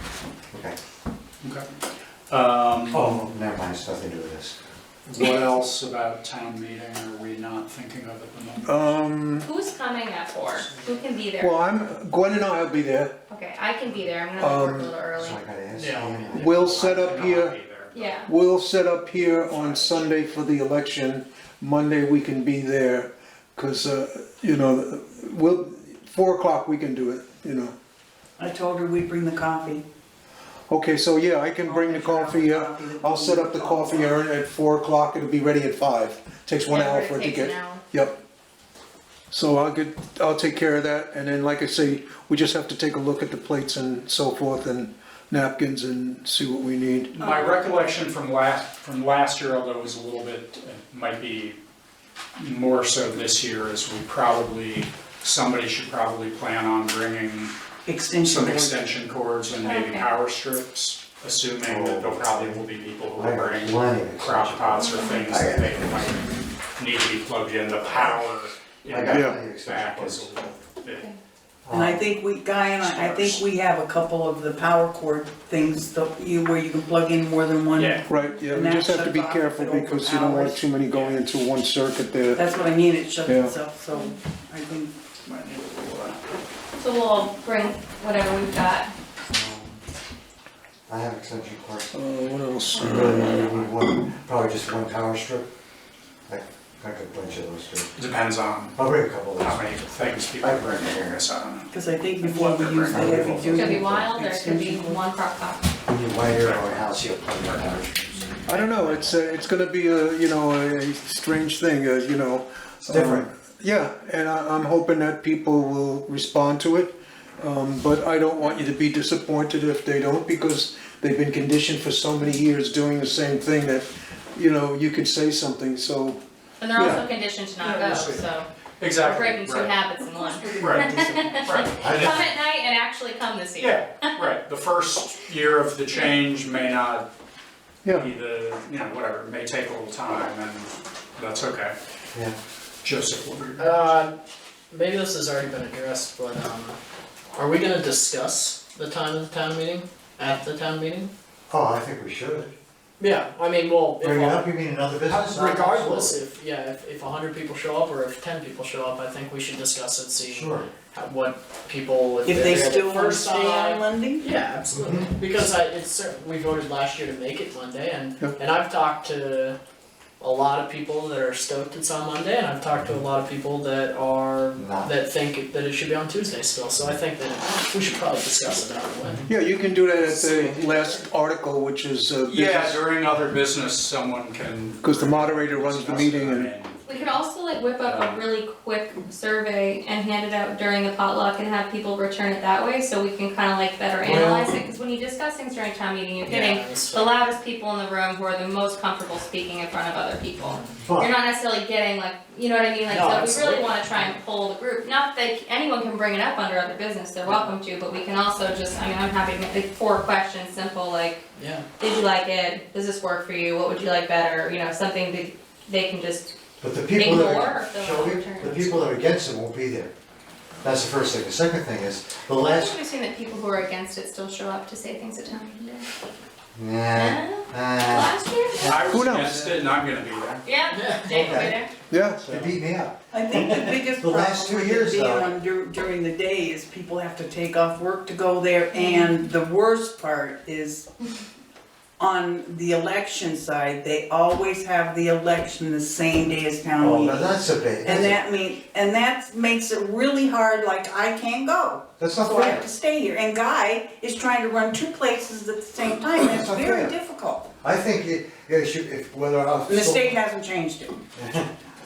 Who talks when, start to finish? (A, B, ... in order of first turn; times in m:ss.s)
0:02.3-0:03.1 A
0:02.9-0:04.6 B
0:05.0-0:08.9 A
0:08.6-0:09.5 C
0:09.4-0:11.6 D
0:10.6-0:11.0 A
0:11.4-0:13.1 C
0:13.3-0:15.4 D
0:14.4-0:14.9 C
0:15.1-0:16.9 B
0:15.7-0:16.1 E
0:15.8-0:18.2 A
0:16.3-0:17.5 C
0:17.9-0:18.3 D
0:18.3-0:27.7 C
0:19.2-0:20.0 A
0:28.4-0:29.8 F
0:30.7-0:38.2 C
0:31.6-0:34.2 F
0:36.7-0:37.8 D
0:39.3-0:47.1 C
0:47.1-0:51.6 A
0:47.2-0:47.6 F
0:52.4-0:57.5 A
0:57.8-0:58.8 F
0:58.2-1:11.1 A
0:59.6-1:00.1 D
1:01.6-1:06.2 B
1:04.8-1:05.2 D
1:08.9-1:10.5 B
1:09.1-1:09.3 C
1:10.9-1:11.1 D
1:11.6-1:12.0 B
1:11.7-1:20.7 F
1:12.8-1:13.4 A
1:17.7-1:18.0 A
1:18.1-1:22.4 C
1:20.9-1:21.2 A
1:22.3-1:26.2 F
1:23.2-1:23.5 C
1:26.8-1:28.9 D
1:29.3-1:29.8 B
1:30.9-1:31.9 B
1:31.9-1:33.6 C
1:32.8-1:35.5 B
1:36.3-1:37.9 B
1:37.9-1:43.7 A
1:38.8-1:39.7 B
1:40.4-1:41.2 B
1:41.7-1:45.0 F
1:42.9-1:43.8 B
1:43.5-1:45.7 D
1:45.9-1:48.3 B
1:46.3-1:47.9 A
1:48.5-2:06.2 C
1:52.8-1:53.3 B
2:06.6-2:14.2 D
2:06.7-2:07.0 C
2:07.6-2:08.2 A
2:08.8-2:09.7 A
2:10.0-2:11.4 F
2:10.6-2:12.2 A
2:11.8-2:12.3 B
2:13.6-2:17.1 A
2:17.9-2:21.7 A
2:22.8-2:23.8 A
2:23.6-2:24.2 E
2:24.7-2:26.8 E
2:27.3-2:31.1 E
2:31.5-2:32.5 B
2:33.0-2:34.5 E
2:34.0-2:36.2 B
2:35.0-2:49.6 E
2:40.3-2:40.7 B
2:42.2-2:44.3 F
2:44.7-2:45.1 B
2:50.2-2:59.2 E
2:54.6-2:54.9 B
2:59.3-3:02.8 C
3:00.0-3:01.0 E
3:02.3-3:07.2 A
3:04.8-3:06.5 C
3:06.9-3:31.3 D
3:07.8-3:08.2 A
3:14.0-3:14.4 B
3:14.1-3:14.4 C
3:16.2-3:17.2 E
3:20.8-3:21.1 B
3:22.9-3:24.2 E
3:31.4-3:31.7 E
3:31.8-3:36.4 D
3:36.6-3:39.9 B
3:37.0-3:39.0 D
3:40.6-3:42.7 B
3:42.5-3:45.9 D
3:46.6-3:49.5 B
3:46.9-3:48.7 D
3:48.6-3:50.5 A
3:48.8-3:49.5 C
3:50.4-3:51.7 D
3:50.7-3:51.2 E
3:51.0-3:51.6 B
3:51.9-3:52.4 C
3:52.2-3:55.3 B
3:53.1-4:00.8 F
3:58.7-3:59.2 D
4:02.0-4:17.4 F
4:06.8-4:08.2 B
4:12.0-4:12.6 B
4:16.2-4:16.9 B
4:17.6-4:20.2 B
4:19.7-4:20.9 F
4:21.1-4:21.5 B